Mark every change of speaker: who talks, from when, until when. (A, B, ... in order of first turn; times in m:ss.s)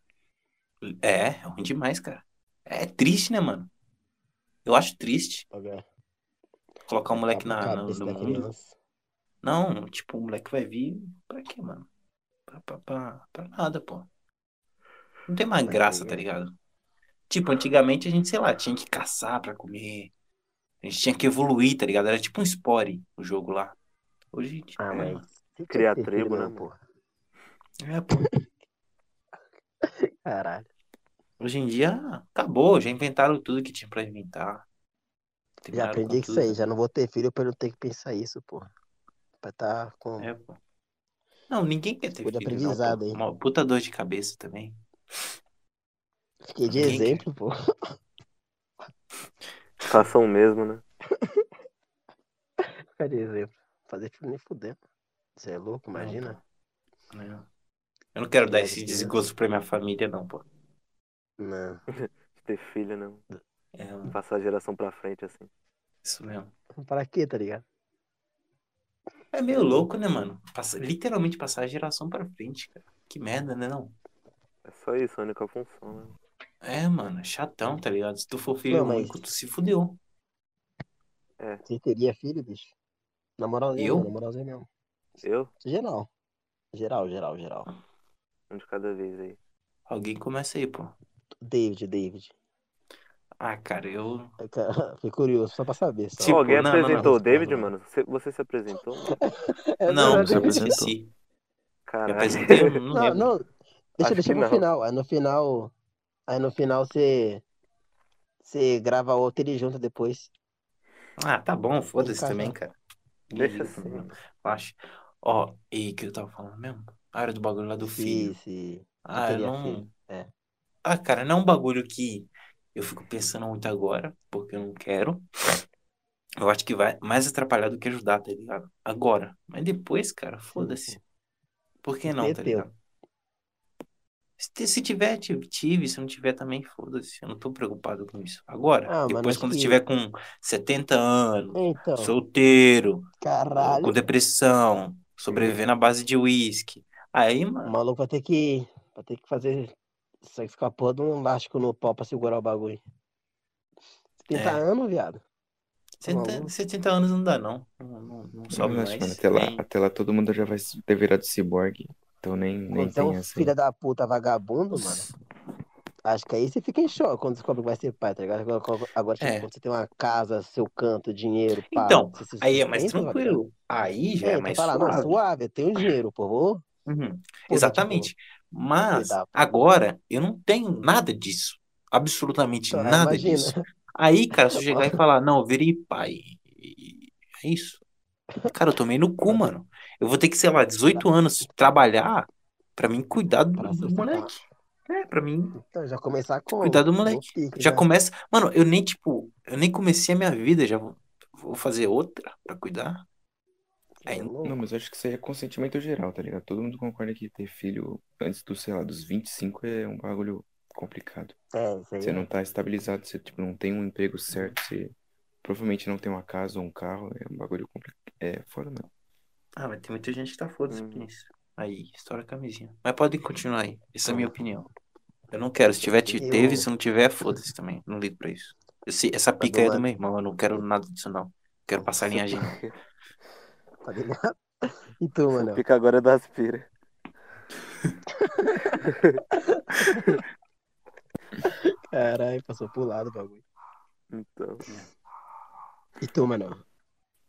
0:00.8-0:03.7 A
0:04.6-0:05.5 A
0:05.5-0:05.8 B
0:06.9-0:08.5 A
0:07.1-0:08.8 B
0:09.4-0:11.9 A
0:12.5-0:14.1 A
0:15.3-0:16.5 A
0:15.6-0:16.2 B
0:17.3-0:20.1 A
0:20.8-0:23.8 A
0:24.3-0:25.2 A
0:24.8-0:26.8 B
0:25.7-0:26.7 C
0:27.8-0:28.3 A
0:29.8-0:30.7 B
0:31.4-0:34.7 A
0:35.6-0:36.6 A
0:35.7-0:38.7 B
0:39.4-0:40.3 B
0:40.2-0:40.6 A
0:41.5-0:44.8 A
0:42.2-0:43.2 B
0:46.5-0:47.5 B
0:46.7-0:47.3 A
0:49.9-0:50.8 C
0:52.6-0:54.8 B
0:55.4-0:56.4 B
0:56.0-0:56.4 A
0:57.1-0:57.5 A
0:58.2-1:00.4 A
0:58.4-0:59.2 B
1:01.4-1:01.8 B
1:01.9-1:03.2 C
1:03.7-1:04.1 A
1:04.1-1:05.5 C
1:06.0-1:06.5 A
1:06.8-1:07.6 B
1:09.3-1:14.0 A
1:09.5-1:09.9 B
1:14.7-1:16.1 C
1:16.6-1:20.0 A
1:18.7-1:19.2 B
1:21.6-1:22.7 B
1:23.4-1:24.7 B
1:23.8-1:24.1 A
1:25.2-1:25.5 C
1:25.6-1:26.1 B
1:26.7-1:27.7 B
1:28.5-1:29.4 C
1:29.9-1:31.0 A
1:31.4-1:32.3 B
1:33.4-1:34.3 A
1:34.4-1:37.7 B
1:36.2-1:37.6 A
1:36.3-1:39.2 C
1:39.1-1:40.8 B
1:39.9-1:41.1 A
1:40.0-1:40.9 D
1:41.9-1:42.8 C
1:42.1-1:43.3 A
1:42.9-1:43.4 B
1:44.0-1:45.7 B
1:44.0-1:44.6 C
1:46.3-1:47.4 B
1:48.4-1:50.3 B
1:51.2-1:52.8 A
1:52.0-1:52.6 B
1:53.3-1:58.4 A
1:53.3-1:54.1 C
1:57.8-2:00.3 B
1:59.1-1:59.9 A
2:00.8-2:05.3 A
2:06.4-2:11.0 A
2:10.6-2:11.0 B
2:11.8-2:12.7 A
2:12.1-2:12.7 B
2:14.4-2:27.7 A
2:18.9-2:19.8 B
2:21.5-2:22.2 B
2:23.2-2:24.0 B
2:25.3-2:25.6 B
2:27.6-2:32.8 B
2:34.2-2:35.2 B
2:34.3-2:34.6 A
2:36.0-2:39.6 A
2:36.0-2:36.6 B
2:38.5-2:43.5 D
2:42.7-2:45.1 B
2:44.7-2:45.1 A
2:46.0-2:53.4 B
2:49.2-2:49.5 A
2:51.7-2:55.2 A
2:54.2-2:56.6 B
2:56.9-3:07.8 A
2:57.5-2:58.1 B
2:58.9-2:59.3 B
3:02.7-3:03.6 B
3:04.5-3:05.0 B
3:08.5-3:15.6 A
3:09.3-3:09.5 B
3:13.6-3:14.4 B
3:15.6-3:17.9 B
3:16.6-3:23.1 A
3:24.0-3:24.6 B
3:24.1-3:24.3 A
3:24.4-3:31.4 D
3:31.5-3:32.3 B
3:32.0-3:38.9 D
3:34.3-3:34.6 A
3:39.6-3:44.7 A
3:40.7-3:41.1 C
3:45.3-3:52.6 A
3:46.1-3:46.7 B
3:49.4-3:49.8 B
3:53.8-3:55.6 B
3:55.3-3:56.7 C
3:58.2-3:58.9 B
3:59.5-4:00.2 B
4:01.4-4:03.4 B
4:04.1-4:04.6 C
4:06.0-4:06.6 B